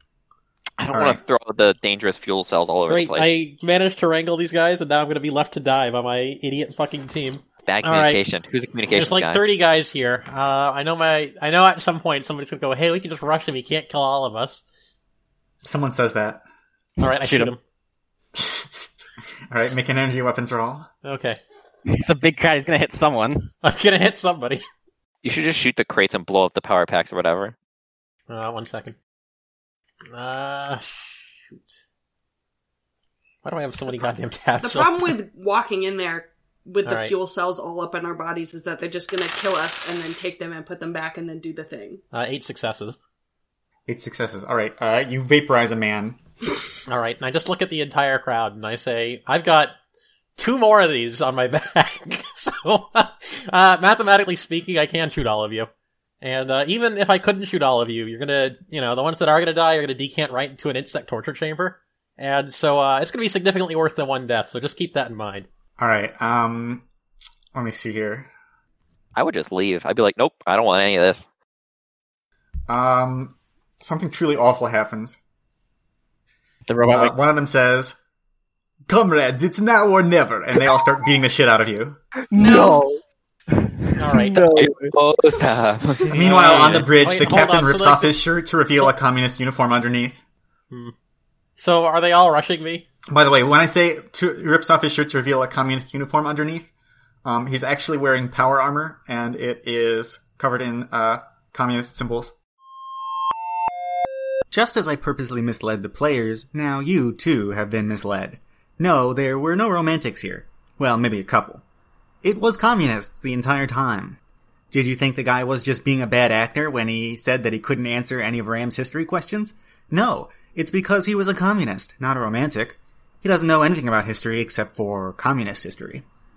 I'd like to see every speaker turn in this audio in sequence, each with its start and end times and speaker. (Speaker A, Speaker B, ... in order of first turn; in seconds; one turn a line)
Speaker A: 0.8-3.3
Speaker B: 0.9-1.2
Speaker C: 2.9-8.2
Speaker A: 7.7-9.4
Speaker C: 8.9-14.6
Speaker B: 15.6-16.4
Speaker C: 17.0-17.6
Speaker D: 17.0-17.5
Speaker B: 18.4-18.6
Speaker B: 19.5-20.9
Speaker C: 21.0-21.4
Speaker D: 21.9-23.5
Speaker C: 23.6-24.6
Speaker A: 25.2-27.6
Speaker C: 28.3-29.0
Speaker C: 30.1-31.7
Speaker C: 33.4-35.1
Speaker E: 34.6-42.0
Speaker C: 36.9-37.1
Speaker C: 42.1-43.0
Speaker B: 43.9-46.2
Speaker C: 46.9-49.8
Speaker C: 50.4-55.7
Speaker C: 56.2-65.5
Speaker B: 65.8-66.9
Speaker B: 67.5-68.3
Speaker A: 69.2-71.3
Speaker B: 72.7-75.2
Speaker D: 76.7-77.2
Speaker B: 76.9-78.0
Speaker B: 78.9-82.0
Speaker D: 82.3-84.9
Speaker E: 82.4-82.8
Speaker C: 84.0-84.4
Speaker A: 84.5-86.2
Speaker C: 86.1-88.2
Speaker B: 86.1-90.2
Speaker C: 91.6-92.9
Speaker B: 93.1-96.7
Speaker B: 97.2-102.3
Speaker B: 104.5-111.6
Speaker B: 112.2-114.2
Speaker B: 114.7-126.0